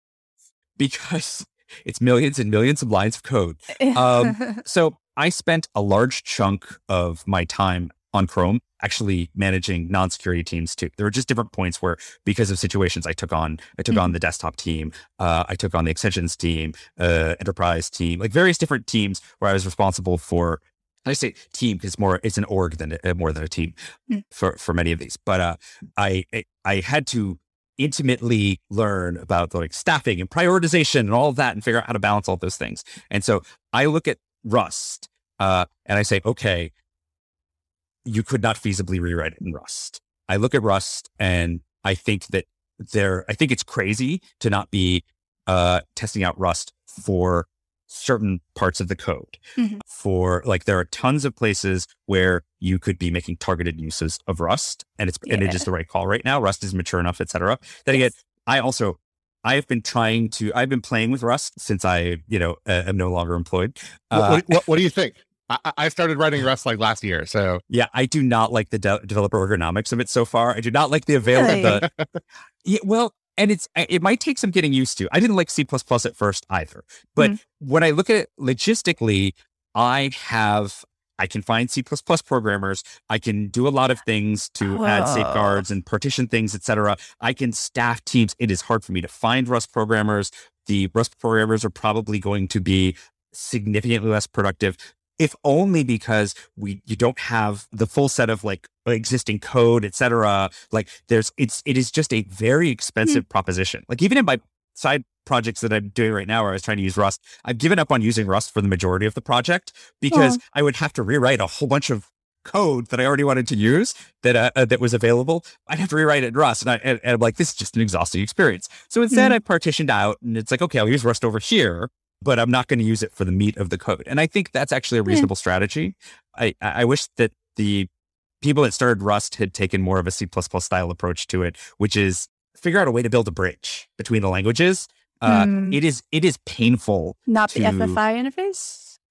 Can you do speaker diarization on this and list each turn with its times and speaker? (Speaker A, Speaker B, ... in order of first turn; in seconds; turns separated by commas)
Speaker A: 0.8-23.7, Speaker B: 3.8-4.5, Speaker A: 24.3-36.7, Speaker A: 38.0-64.6, Speaker B: 55.3-55.6, Speaker C: 64.1-67.6, Speaker A: 67.7-71.9, Speaker B: 71.3-71.8, Speaker A: 72.6-127.9, Speaker B: 84.6-85.6, Speaker B: 110.1-110.4, Speaker A: 128.4-138.0, Speaker B: 135.2-135.8, Speaker B: 137.3-138.9